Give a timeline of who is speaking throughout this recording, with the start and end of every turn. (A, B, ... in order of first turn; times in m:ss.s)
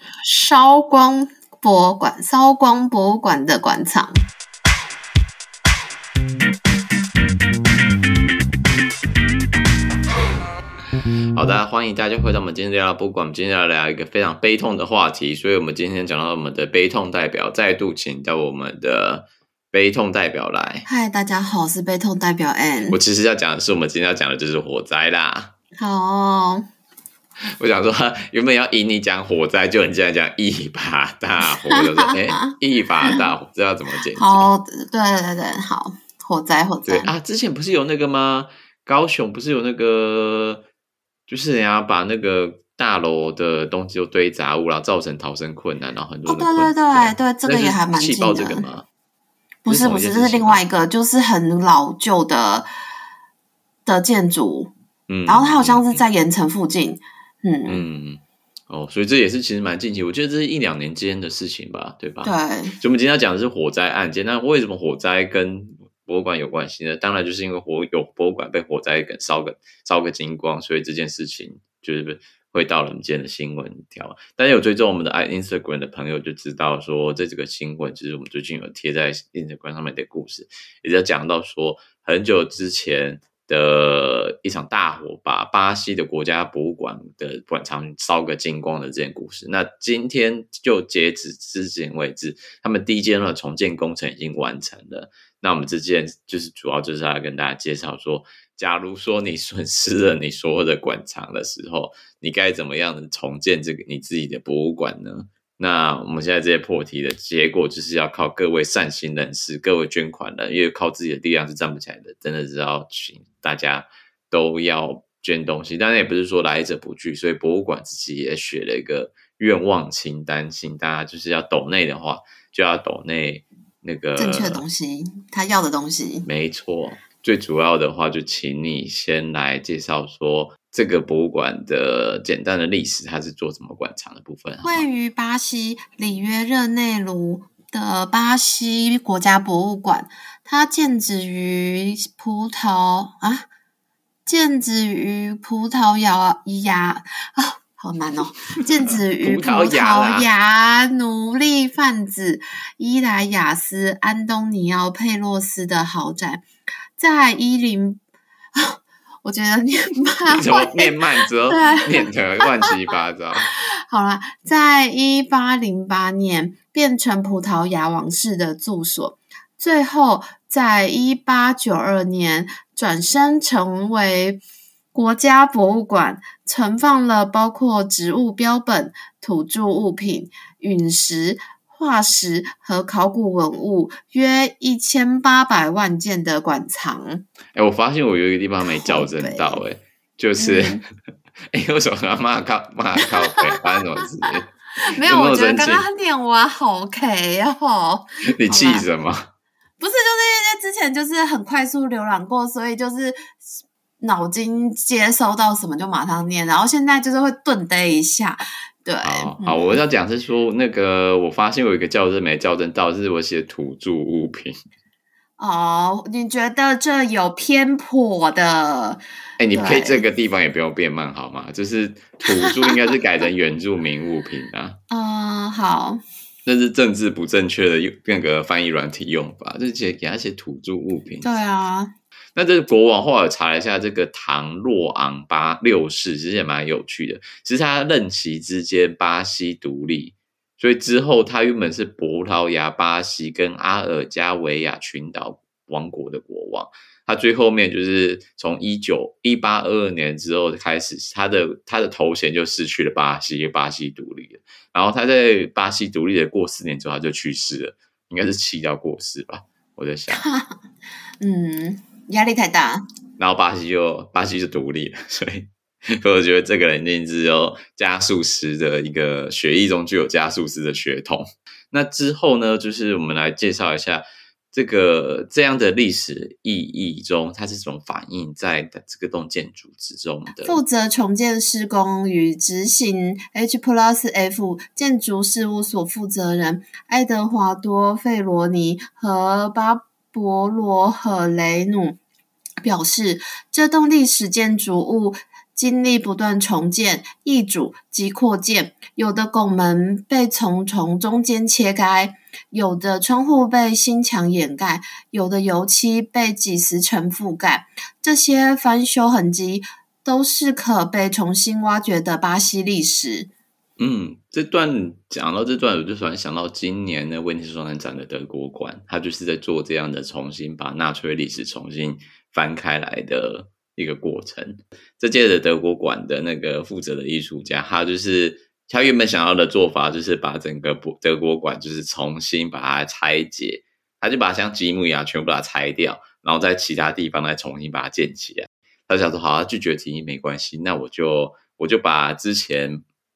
0:00.2-0:04.2 A
0:11.3-0:20.9 B
0:20.9-0:23.0 A
0:22.9-0:25.5 B
0:25.8-0:26.6 A
0:27.6-0:34.5 B
0:31.8-0:32.5 A
0:34.2-0:37.1 A
0:36.8-0:40.6 B
0:41.3-0:48.9 B
0:46.3-0:48.7 A
0:49.6-0:52.7 A
0:49.7-0:50.6 B
0:53.9-0:54.7 A
0:55.1-0:56.0 B
0:55.3-0:57.8 A
0:57.7-2:04.6 B
1:02.2-1:02.8 A
2:04.2-2:06.3 A
2:06.2-2:14.8 B
2:14.6-2:23.5 A
2:24.2-2:36.4 A
2:28.5-2:30.3 B
2:37.0-2:38.0 A
2:38.6-2:42.1 A
2:40.3-2:43.5 B
2:43.9-2:54.4 A
2:54.9-3:07.2 A
3:07.5-3:10.8 B
3:08.6-3:09.6 A
3:10.4-3:10.8 A
3:11.5-3:14.5 B
3:13.0-3:13.6 A
3:14.9-3:18.8 A
3:15.0-3:15.9 B
3:18.3-3:19.2 B
3:19.8-3:23.4 A
3:24.0-3:29.8 A
3:29.0-3:34.5 B
3:35.4-3:39.0 A
3:39.4-3:44.8 B
3:39.5-3:40.0 A
3:44.9-3:46.0 A
3:46.4-3:51.3 B
3:51.2-3:51.9 A
3:52.3-4:20.2 B
4:20.1-4:20.6 A
4:21.2-4:22.8 A
4:23.2-4:40.6 B
4:40.4-4:52.0 A
4:52.6-5:13.3 A
5:13.8-5:42.8 B